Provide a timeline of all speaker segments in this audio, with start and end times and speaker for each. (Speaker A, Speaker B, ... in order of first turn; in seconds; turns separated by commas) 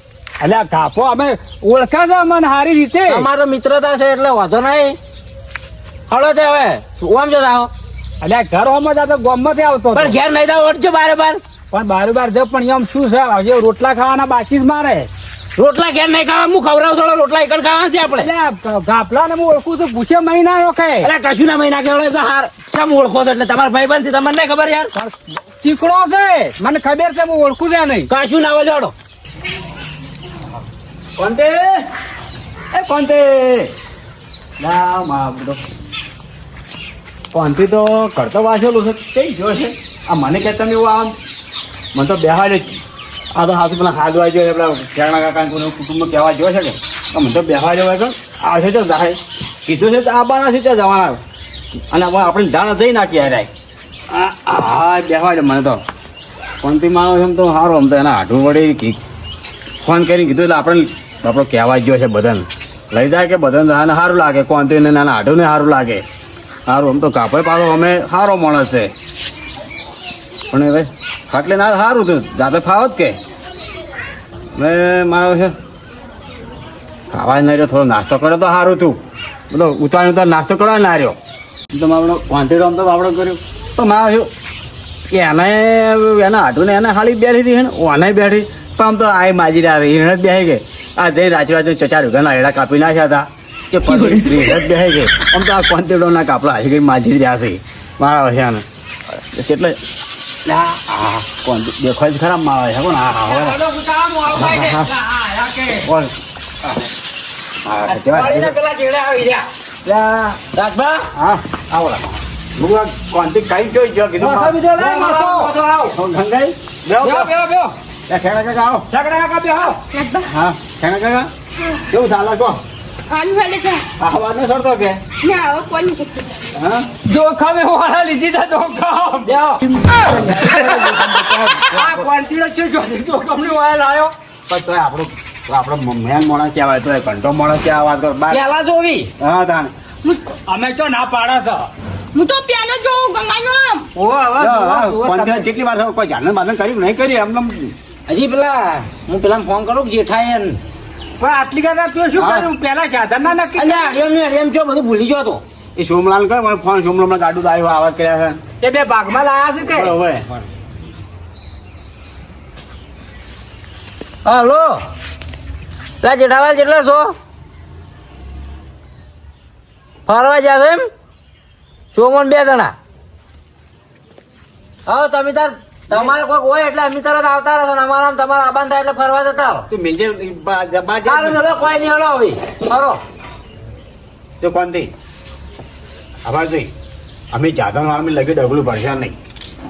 Speaker A: 0.4-3.3, Speaker B: 3.1-5.0, Speaker B: 6.1-7.7, Speaker A: 8.2-10.2, Speaker B: 9.9-11.4, Speaker A: 11.7-15.1, Speaker B: 15.6-18.3, Speaker A: 18.2-21.1, Speaker B: 21.0-24.9, Speaker A: 24.9-28.1, Speaker B: 28.1-28.9, Speaker C: 31.2-31.9, Speaker C: 32.7-33.7, Speaker C: 34.6-35.6, Speaker C: 37.3-41.1, Speaker C: 41.9-42.8, Speaker C: 43.3-51.2, Speaker C: 51.9-53.5, Speaker C: 54.1-55.8, Speaker C: 56.6-59.0, Speaker C: 59.8-66.0, Speaker C: 66.7-68.9, Speaker C: 70.5-73.2, Speaker C: 74.5-75.5, Speaker C: 77.1-79.0, Speaker C: 79.5-81.2, Speaker C: 81.7-84.3, Speaker C: 85.1-99.8, Speaker C: 100.4-103.6, Speaker B: 103.2-105.9, Speaker C: 104.3-104.9, Speaker C: 105.8-106.1, Speaker C: 107.6-108.5, Speaker B: 107.8-109.5, Speaker C: 109.8-110.4, Speaker B: 110.5-111.1, Speaker C: 111.1-114.6, Speaker B: 114.2-116.0, Speaker A: 114.6-115.5, Speaker C: 115.9-117.3, Speaker A: 117.0-117.7, Speaker C: 118.1-118.8, Speaker A: 118.9-119.8, Speaker D: 119.6-120.3, Speaker C: 120.3-121.3, Speaker C: 121.9-122.6, Speaker D: 123.1-123.8, Speaker C: 124.0-125.0, Speaker D: 125.2-126.3, Speaker C: 126.5-126.9, Speaker A: 127.0-129.4, Speaker B: 129.2-129.6, Speaker C: 129.6-132.1, Speaker A: 130.0-131.0, Speaker A: 131.6-134.1, Speaker C: 134.5-138.4, Speaker B: 138.3-139.1, Speaker C: 139.2-139.7, Speaker D: 140.0-140.3, Speaker A: 140.4-141.7, Speaker D: 142.1-143.9, Speaker A: 144.0-144.5, Speaker C: 144.4-147.7, Speaker B: 144.4-145.5, Speaker B: 148.1-150.6, Speaker A: 151.2-153.9, Speaker C: 152.2-152.5, Speaker B: 153.6-155.4, Speaker C: 155.8-158.4, Speaker A: 158.6-159.9, Speaker C: 159.6-160.4, Speaker B: 164.2-164.8, Speaker B: 166.0-167.1, Speaker B: 170.1-170.9, Speaker B: 171.9-172.7, Speaker B: 174.8-179.7, Speaker C: 175.9-176.2, Speaker C: 179.7-181.4, Speaker B: 181.0-183.0, Speaker C: 184.4-184.9, Speaker C: 186.2-186.7, Speaker C: 187.3-189.2